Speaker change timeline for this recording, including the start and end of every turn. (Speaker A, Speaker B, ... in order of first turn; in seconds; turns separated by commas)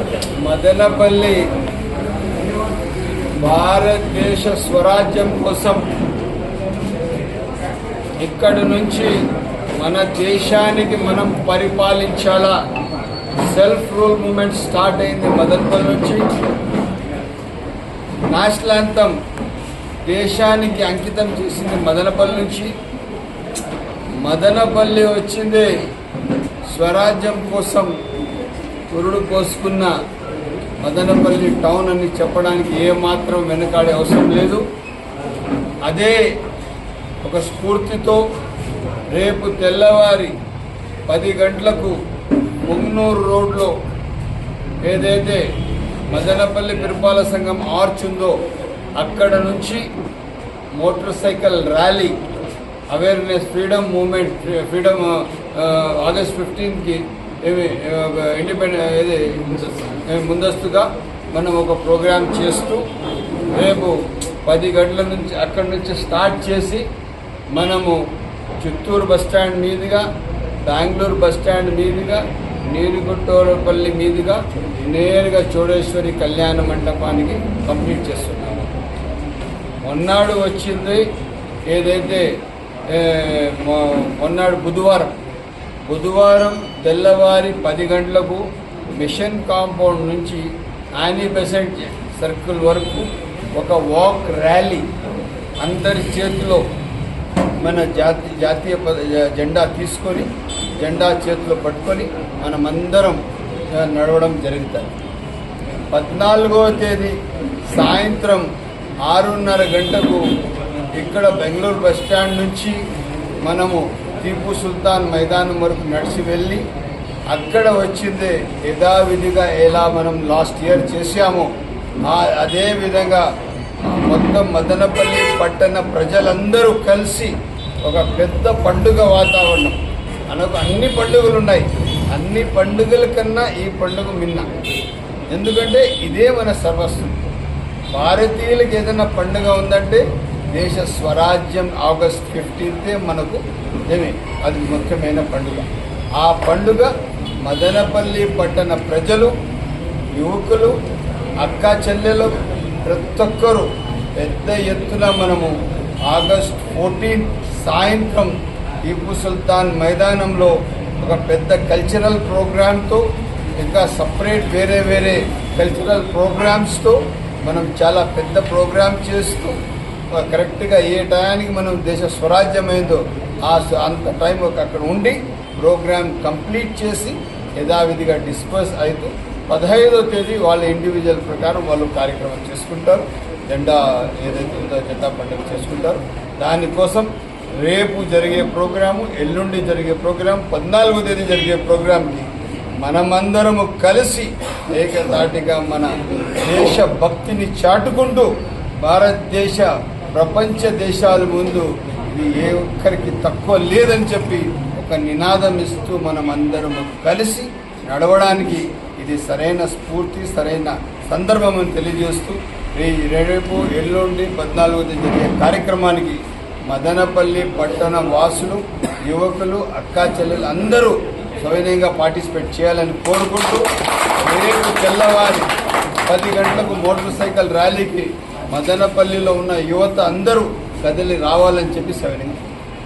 Speaker A: 0.4-1.4, Speaker A: 3.4-5.9, Speaker A: 8.2-9.1, Speaker A: 9.8-12.6, Speaker A: 13.4-16.3, Speaker A: 18.3-19.2, Speaker A: 20.1-22.7, Speaker A: 24.2-25.7, Speaker A: 26.7-27.9, Speaker A: 28.9-29.9, Speaker A: 30.8-34.6, Speaker A: 35.9-36.2, Speaker A: 37.2-38.2, Speaker A: 39.1-40.4, Speaker A: 41.1-42.0, Speaker A: 42.6-43.8, Speaker A: 44.8-45.4, Speaker A: 46.1-48.4, Speaker A: 49.0-49.9, Speaker A: 50.8-52.2, Speaker A: 52.9-62.8, Speaker A: 63.5-66.9, Speaker A: 67.5-68.0, Speaker A: 68.6-70.1, Speaker A: 70.7-78.7, Speaker A: 79.8-81.1, Speaker A: 81.7-82.3, Speaker A: 82.9-85.2, Speaker A: 85.8-88.5, Speaker A: 89.0-94.9, Speaker A: 95.6-96.7, Speaker A: 97.6-100.3, Speaker A: 100.8-103.2, Speaker A: 103.7-105.0, Speaker A: 105.9-107.2, Speaker A: 107.7-108.5, Speaker A: 109.0-110.2, Speaker A: 111.0-112.8, Speaker A: 113.4-116.6, Speaker A: 117.3-121.5, Speaker A: 122.0-123.3, Speaker A: 123.9-134.5, Speaker A: 135.3-137.3, Speaker A: 137.9-146.9, Speaker A: 147.4-149.3, Speaker A: 150.2-150.8, Speaker A: 151.4-155.6, Speaker A: 156.1-163.1, Speaker A: 163.6-169.6, Speaker A: 170.2-187.1, Speaker A: 187.6-192.3, Speaker A: 192.8-198.3, Speaker A: 198.8-223.7, Speaker A: 224.2-225.5, Speaker A: 226.1-232.4